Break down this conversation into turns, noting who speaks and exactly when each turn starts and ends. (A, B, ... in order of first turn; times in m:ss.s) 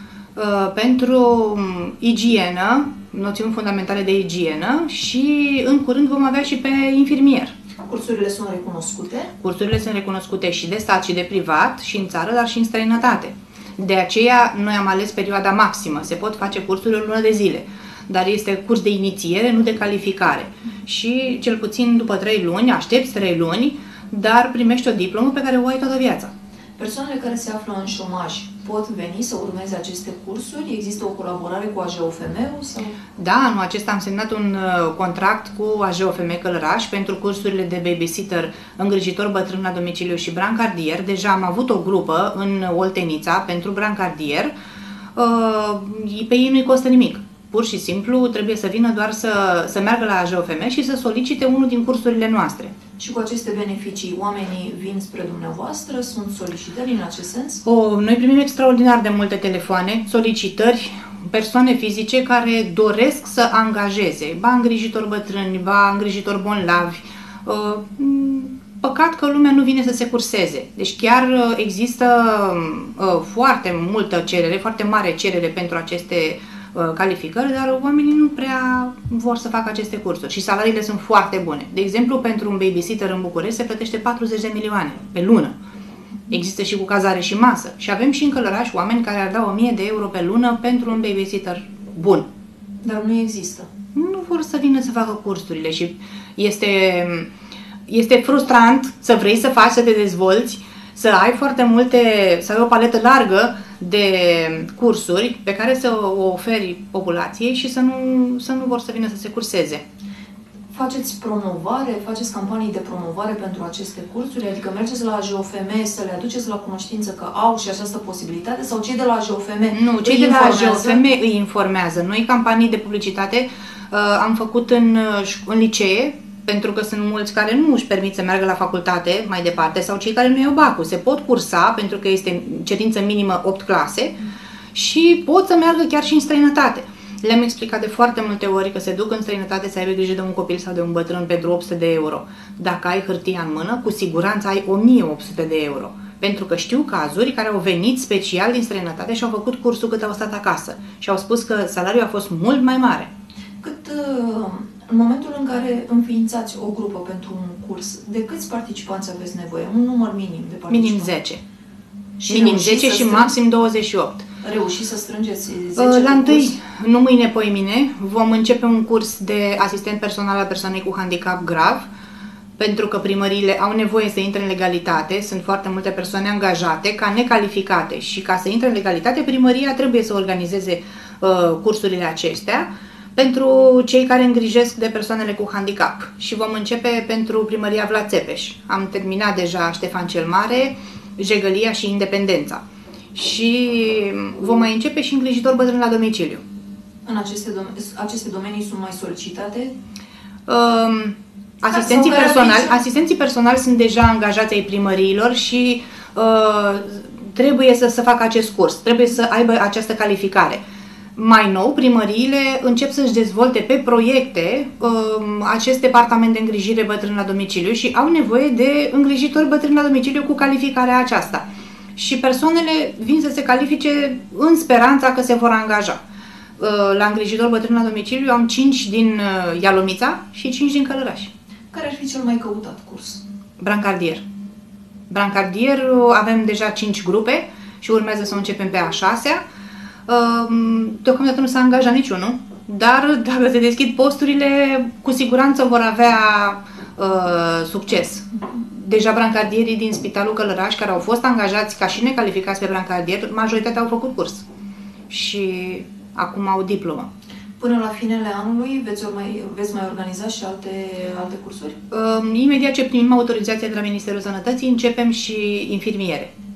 0:00.4-0:07.5 A
0:07.8-0:09.3 B
0:09.4-0:26.3 A
0:26.8-0:33.0 B
0:33.2-0:44.5 A
0:45.1-0:52.7 A
0:53.0-0:57.6 B
0:57.6-1:25.6 A
1:26.3-1:32.2 A
1:32.8-1:33.7 B
1:33.9-1:37.3 A
1:37.9-1:49.8 A
1:50.7-2:01.0 B
1:59.7-2:14.2 A
2:14.7-2:33.1 A
2:33.6-2:41.1 B
2:40.7-2:41.4 A
2:42.2-2:43.3 B
2:42.3-2:44.2 A
2:44.4-2:46.6 B
2:45.8-2:51.9 A
2:52.6-3:12.6 A
3:13.1-3:16.4 A
3:17.0-3:19.7 B
3:20.5-3:30.6 A
3:21.7-3:22.8 B
3:31.2-3:46.0 A
3:46.6-3:51.3 A
3:51.7-3:53.2 B
3:53.6-3:54.2 A
3:55.1-3:59.4 A
4:00.1-4:14.4 A
4:15.1-4:17.1 A
4:17.6-4:21.8 B
4:21.9-4:26.3 A